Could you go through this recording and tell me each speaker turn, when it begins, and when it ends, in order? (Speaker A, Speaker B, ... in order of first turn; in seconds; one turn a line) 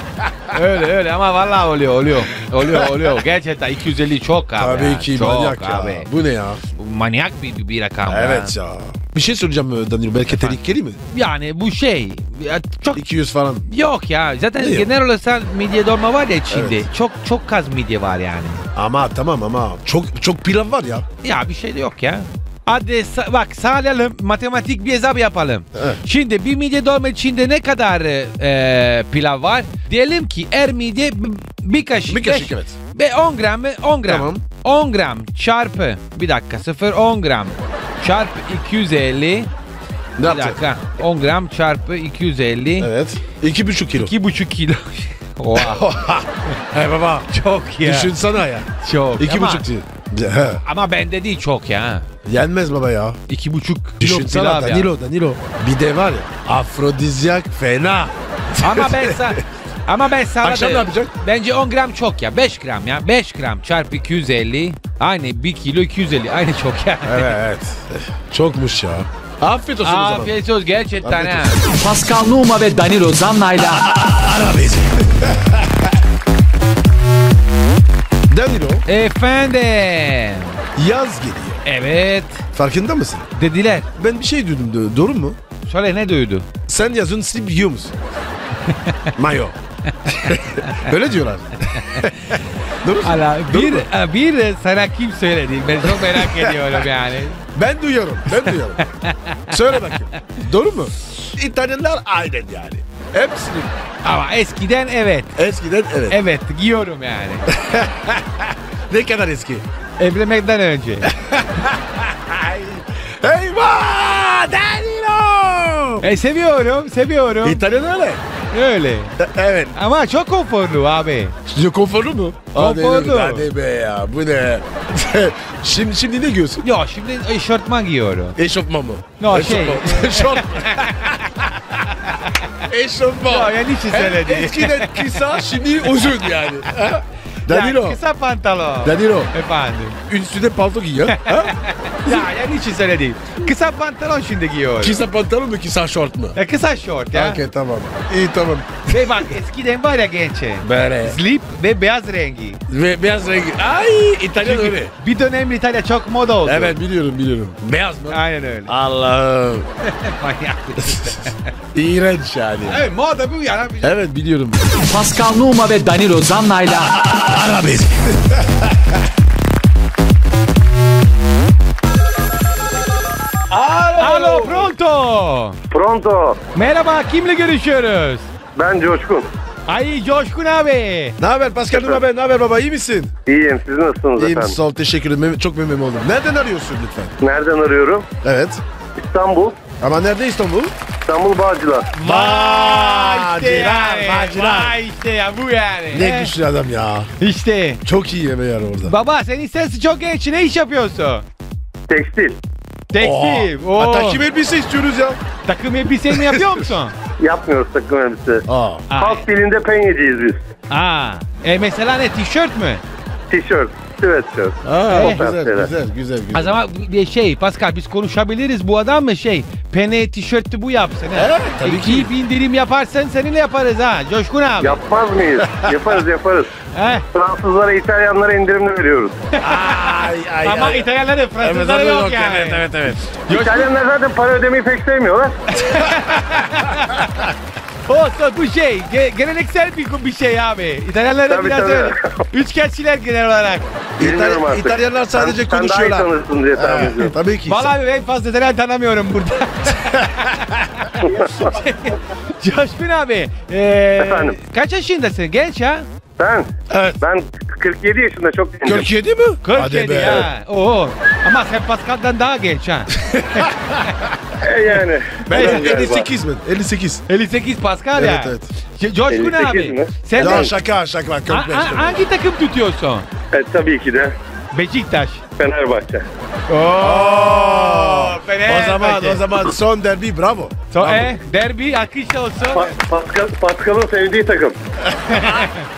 Speaker A: 0.5-6.1
Speaker B: 2.6-3.1
Speaker B: 4.6-6.6
Speaker A: 6.7-8.5
Speaker B: 8.1-11.0
Speaker A: 10.3-10.6
Speaker A: 11.1-13.0
Speaker B: 12.9-13.7
Speaker A: 13.7-18.6
Speaker B: 14.6-14.9
Speaker B: 16.5-16.9
Speaker B: 18.8-21.1
Speaker A: 21.2-39.5
Speaker B: 25.8-26.0
Speaker B: 32.1-32.7
Speaker B: 34.0-34.4
Speaker B: 40.2-40.6
Speaker A: 40.2-42.9
Speaker B: 42.8-44.1
Speaker A: 44.0-45.9
Speaker B: 45.5-47.3
Speaker A: 47.3-49.6
Speaker B: 47.8-50.6
Speaker A: 50.6-52.1
Speaker B: 52.2-53.2
Speaker A: 53.3-54.9
Speaker B: 54.0-59.4
Speaker A: 58.6-67.4
Speaker B: 60.4-61.1
Speaker B: 67.0-70.3
Speaker A: 69.8-71.6
Speaker B: 71.0-71.7
Speaker C: 71.6-73.9
Speaker B: 73.9-76.0
Speaker B: 78.3-78.8
Speaker A: 78.9-80.6
Speaker B: 80.8-81.6
Speaker A: 81.7-82.5
Speaker B: 82.5-83.3
Speaker A: 83.4-83.9
Speaker B: 84.0-85.4
Speaker A: 85.7-86.5
Speaker B: 86.7-88.0
Speaker A: 88.7-89.1
Speaker B: 89.2-89.5
Speaker A: 89.9-90.9
Speaker B: 90.1-93.9
Speaker A: 91.7-92.4
Speaker A: 93.0-97.4
Speaker B: 95.8-96.9
Speaker B: 97.5-98.8
Speaker A: 98.3-100.2
Speaker B: 99.5-103.7
Speaker A: 104.0-105.3
Speaker B: 105.4-106.2
Speaker A: 106.1-107.5
Speaker B: 107.5-109.7
Speaker A: 110.0-111.1
Speaker B: 111.1-116.1
Speaker A: 116.0-117.6
Speaker B: 117.4-118.2
Speaker A: 118.5-119.2
Speaker B: 119.2-119.8
Speaker A: 119.8-121.4
Speaker B: 121.5-126.7
Speaker A: 122.5-123.5
Speaker A: 126.6-128.4
Speaker B: 128.4-131.6
Speaker A: 129.2-131.3
Speaker A: 132.0-132.5
Speaker B: 132.7-138.0
Speaker A: 133.2-136.1
Speaker A: 137.5-140.0
Speaker B: 138.8-139.3
Speaker B: 140.1-142.2
Speaker A: 141.1-145.0
Speaker B: 144.8-146.4
Speaker A: 146.3-147.4
Speaker B: 147.1-149.3
Speaker A: 148.9-152.6
Speaker B: 150.6-151.2
Speaker B: 152.7-154.9
Speaker A: 154.4-156.8
Speaker B: 156.4-159.7
Speaker A: 158.1-158.7
Speaker A: 159.8-161.5
Speaker B: 160.8-161.1
Speaker B: 161.7-162.9
Speaker A: 162.7-163.9
Speaker B: 163.8-164.7
Speaker C: 164.7-167.1
Speaker B: 167.1-169.0
Speaker B: 173.5-174.7
Speaker A: 174.0-175.6
Speaker D: 175.7-176.4
Speaker A: 176.6-178.3
Speaker D: 178.6-179.3
Speaker A: 179.7-181.2
Speaker B: 181.2-183.1
Speaker D: 181.7-182.0
Speaker D: 183.3-184.6
Speaker B: 184.2-187.2
Speaker D: 187.2-188.1
Speaker B: 188.2-188.6
Speaker D: 189.0-189.6
Speaker B: 189.8-190.7
Speaker D: 191.1-191.9
Speaker A: 191.9-196.3
Speaker B: 192.0-194.8
Speaker B: 195.9-197.1
Speaker A: 197.2-197.8
Speaker B: 197.8-198.9
Speaker A: 198.8-201.2
Speaker D: 201.9-202.4
Speaker A: 202.9-204.2
Speaker B: 203.0-205.2
Speaker A: 205.5-206.9
Speaker B: 206.1-206.6
Speaker D: 207.2-210.4
Speaker B: 208.5-208.9
Speaker A: 208.9-209.2
Speaker A: 210.7-212.8
Speaker D: 213.3-215.7
Speaker B: 214.6-216.6
Speaker A: 214.9-215.3
Speaker A: 216.3-224.8
Speaker B: 221.2-222.1
Speaker D: 224.6-226.5
Speaker B: 225.4-226.0
Speaker A: 226.7-227.0
Speaker D: 227.1-229.2
Speaker A: 229.3-233.7
Speaker B: 229.4-230.9
Speaker B: 231.4-233.0
Speaker D: 233.3-235.4
Speaker A: 235.5-237.3
Speaker B: 235.7-236.4
Speaker A: 237.9-243.7
Speaker D: 241.3-242.1
Speaker B: 244.0-247.7
Speaker D: 244.0-247.2
Speaker A: 247.5-255.9
Speaker B: 250.0-250.6
Speaker D: 251.0-251.5
Speaker D: 254.0-254.4
Speaker D: 256.2-258.9
Speaker B: 256.7-257.0
Speaker B: 258.6-260.3
Speaker A: 259.4-263.9
Speaker B: 263.0-264.0
Speaker D: 264.4-266.1
Speaker B: 265.3-267.0
Speaker A: 265.3-265.9
Speaker A: 267.1-270.5
Speaker B: 268.0-268.5
Speaker D: 269.1-270.5
Speaker B: 270.2-272.0
Speaker A: 271.3-273.1
Speaker D: 273.3-274.2
Speaker A: 274.5-275.2
Speaker D: 275.4-276.1
Speaker A: 276.5-279.4
Speaker B: 276.8-281.1
Speaker A: 280.7-282.7
Speaker D: 282.5-284.6
Speaker B: 285.0-285.5
Speaker A: 285.1-285.6